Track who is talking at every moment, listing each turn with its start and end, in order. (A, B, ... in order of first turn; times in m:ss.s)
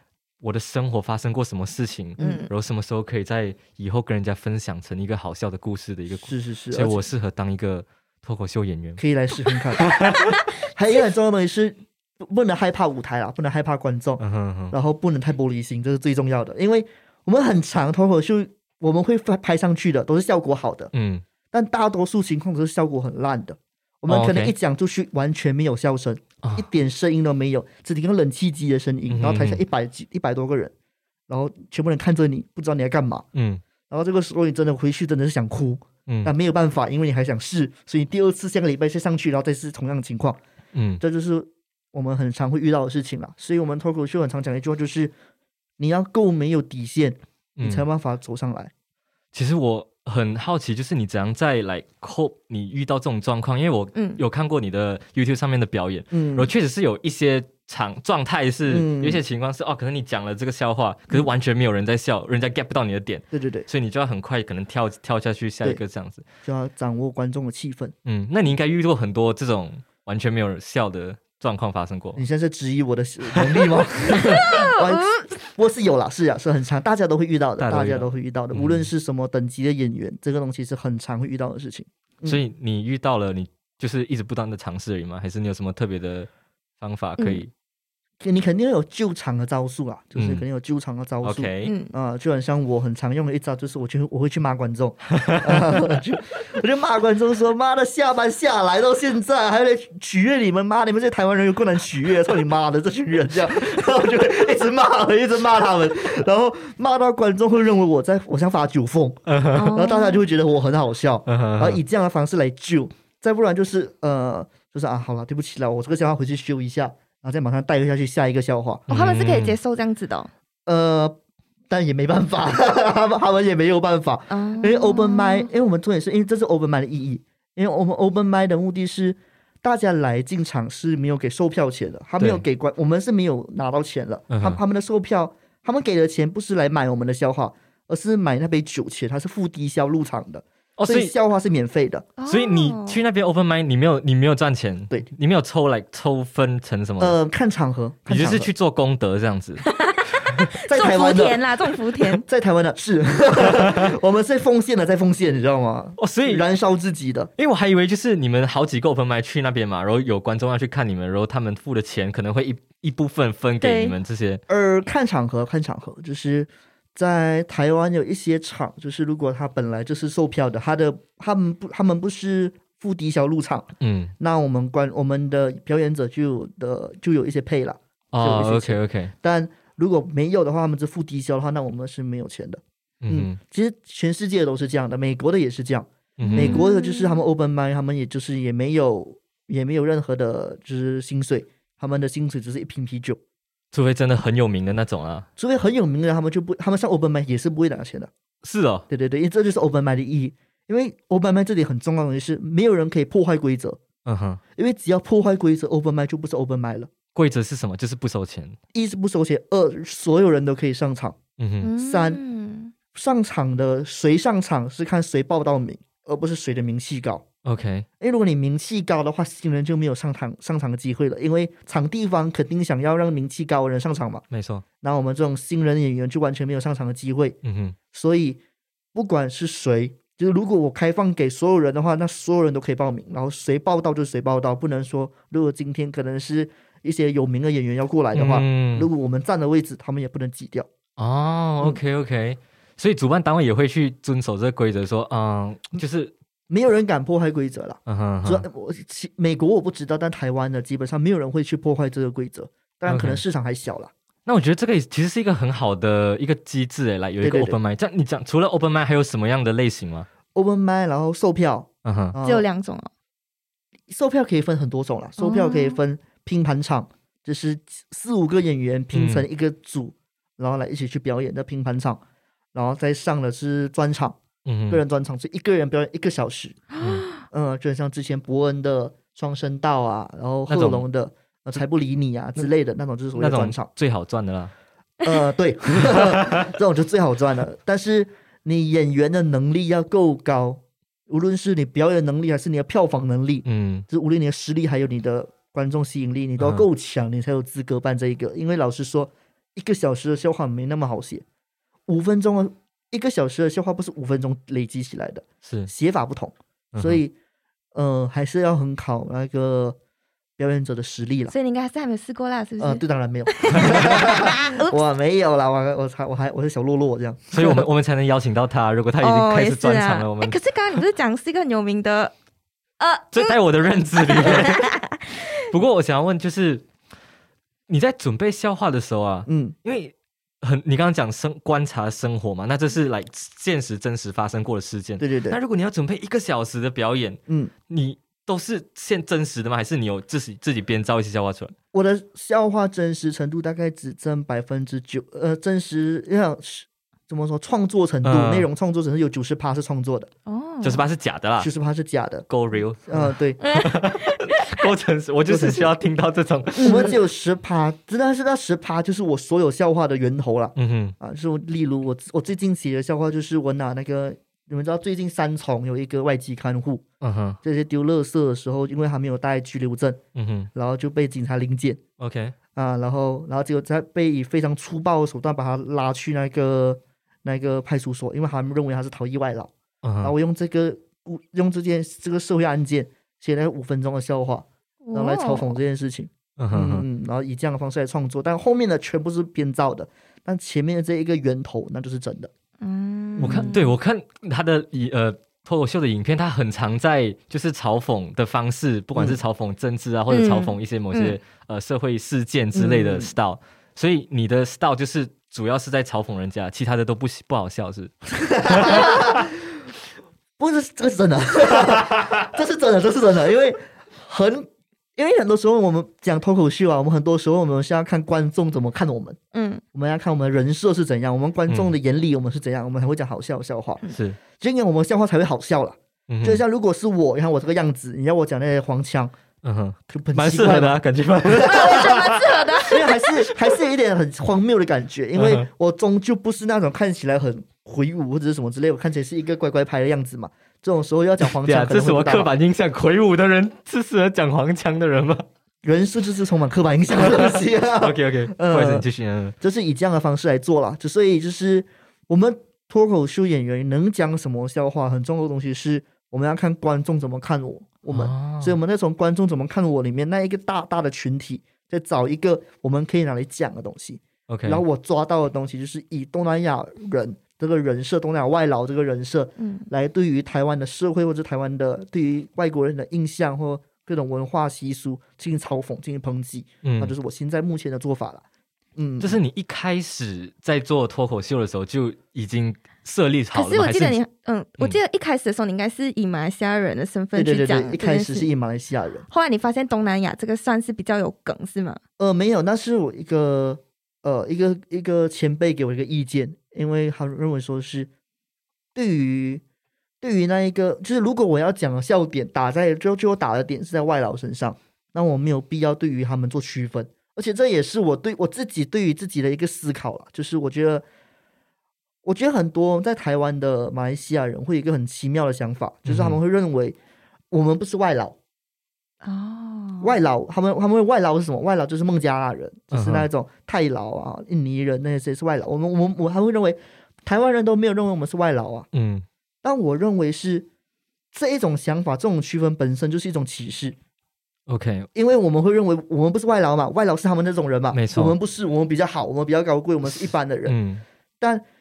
0:00.4-0:09.0 A
0:02.2-0:02.4 B
0:02.2-0:02.5 C
0:06.2-0:07.0 B
0:09.0-0:20.9 B
0:09.9-0:10.3 A
0:14.2-0:14.8 A
0:20.9-0:21.2 A
0:21.5-0:30.7 B
0:24.1-0:24.6 A
0:29.1-0:29.6 A
0:31.3-0:33.2 B
0:33.3-0:33.6 A
0:33.9-0:40.4 B
0:36.1-0:36.3 A
0:40.7-0:41.0 A
0:41.0-0:45.1 B
0:45.8-0:48.7 B
0:47.6-0:47.8 A
0:49.3-1:06.3 A
0:54.0-0:54.2 C
0:56.1-0:56.5 B
0:58.7-0:59.2 B
1:03.3-1:03.7 B
1:06.4-1:07.9 B
1:08.0-1:12.2 A
1:12.2-1:22.4 B
1:13.4-1:13.8 A
1:14.2-1:15.3 C
1:17.6-1:18.9 A
1:22.2-1:26.3 A
1:26.8-1:27.5 A
1:28.2-1:58.9 B
1:30.2-1:30.4 A
1:31.2-1:31.7 A
1:31.6-1:31.9 C
1:35.2-1:35.8 A
1:49.3-1:49.7 A
1:49.5-1:50.2 C
1:51.3-1:51.8 A
1:58.9-1:59.6 A
1:58.9-2:00.3 C
2:00.7-2:01.2 B
2:01.7-2:22.1 B
2:04.3-2:05.5 C
2:14.3-2:14.6 A
2:20.8-2:21.1 A
2:22.2-2:23.0 C
2:22.3-2:27.2 A
2:27.0-2:28.5 B
2:28.1-2:29.6 A
2:29.6-2:32.2 C
2:30.6-2:31.4 B
2:32.0-2:37.3 B
2:33.5-2:33.9 A
2:36.0-2:36.4 A
2:37.4-2:44.4 A
2:43.6-2:44.0 C
2:44.5-2:53.7 B
2:53.8-2:54.1 A
2:54.2-3:13.2 B
2:58.1-2:59.1 A
3:03.0-3:03.4 A
3:06.2-3:06.6 A
3:06.2-3:07.2 C
3:13.7-3:15.3 A
3:15.4-3:18.1 B
3:18.4-3:18.9 A
3:18.9-3:23.8 B
3:24.0-3:24.4 A
3:24.6-3:26.9 B
3:27.2-3:28.6 A
3:28.7-3:31.2 B
3:31.4-3:31.7 A
3:31.6-3:32.7 C
3:31.8-3:32.2 B
3:32.9-3:37.2 B
3:37.4-3:37.9 A
3:38.0-3:44.2 B
3:44.3-3:44.6 A
3:44.8-3:47.4 B
3:47.4-3:47.8 A
3:47.9-3:48.4 B
3:48.9-4:00.7 B
3:58.1-3:58.9 A
4:01.0-4:06.1 A
4:06.5-4:13.9 B
4:07.9-4:08.5 A
4:12.9-4:13.2 A
4:14.3-4:20.1 A
4:17.2-4:17.6 B
4:20.3-4:22.4 B
4:21.8-4:22.2 A
4:22.2-4:22.9 C
4:23.9-4:32.0 B
4:25.2-4:25.8 C
4:28.9-4:29.3 A
4:32.5-4:34.2 B
4:34.4-4:34.8 A
4:34.7-4:36.6 B
4:36.8-4:37.1 A
4:37.3-4:43.7 B
4:40.5-4:40.8 A
4:43.2-4:44.5 A
4:45.0-5:01.2 B
4:45.9-4:46.5 A
4:53.5-4:53.9 A
4:56.4-4:56.7 A
5:01.9-5:07.1 B
5:05.4-5:05.7 A
5:06.7-5:07.0 A
5:07.8-5:09.8 B
5:10.4-5:11.3 B
5:11.3-5:14.8 C
5:12.6-5:17.6 B
5:13.5-5:13.9 A
5:17.3-5:20.8 A
5:19.0-5:22.1 C
5:22.8-5:23.4 C
5:23.1-5:24.8 A
5:24.0-5:25.3 C
5:25.5-5:26.7 A
5:27.7-5:41.5 A
5:29.3-5:29.6 B
5:35.0-5:35.4 B
5:41.7-5:50.1 B
5:48.0-5:48.5 A
5:50.3-5:50.8 C
5:50.6-5:51.5 A
5:51.4-5:52.3 B
5:52.3-5:57.0 A
5:52.9-5:53.4 B
5:53.4-5:54.6 C
5:55.3-5:55.7 B
5:56.6-5:57.0 C
5:56.6-6:06.8 B
6:00.6-6:01.0 A
6:07.0-6:07.4 A
6:07.4-6:10.0 B
6:10.2-6:10.5 A
6:10.5-6:11.8 B
6:12.0-6:12.4 A
6:12.6-6:19.5 B
6:19.8-6:20.1 A
6:20.0-6:32.3 B
6:24.8-6:25.6 C
6:26.4-6:26.8 A
6:32.6-6:33.7 C
6:33.2-6:33.5 B
6:33.2-6:49.2 A
6:40.1-6:41.2 C
6:42.5-6:43.1 B
6:48.1-6:49.3 B
6:50.4-6:59.2 B
6:59.3-6:59.6 C
6:59.7-7:03.8 B
7:01.5-7:01.8 A
7:03.9-7:04.2 A
7:04.4-7:09.1 B
7:06.1-7:06.4 A
7:09.4-7:12.6 A
7:09.9-7:22.3 B
7:11.4-7:13.0 C
7:15.2-7:15.5 A
7:21.2-7:25.2 A
7:25.6-7:28.9 B
7:27.0-7:29.4 A
7:29.4-7:58.2 B
7:37.9-7:38.6 A
7:44.3-7:44.6 A
7:49.4-7:49.7 C
7:56.6-7:57.0 A
7:58.8-7:59.2 B
7:59.0-8:04.0 A
8:03.3-8:08.3 C
8:07.2-8:09.1 B
8:09.1-8:11.8 C
8:12.0-8:17.9 B
8:18.8-8:19.4 B
8:20.0-8:30.8 B
8:32.0-8:36.8 B
8:35.8-8:36.2 A
8:37.3-8:38.2 B
8:39.0-8:39.9 C
8:39.8-8:48.7 B
8:42.7-8:43.1 A
8:48.7-8:49.0 A
8:49.4-8:50.5 B
8:51.1-8:53.8 B
8:54.5-8:54.9 A
8:54.9-9:00.6 B
8:57.7-8:58.2 A
8:59.9-9:00.8 A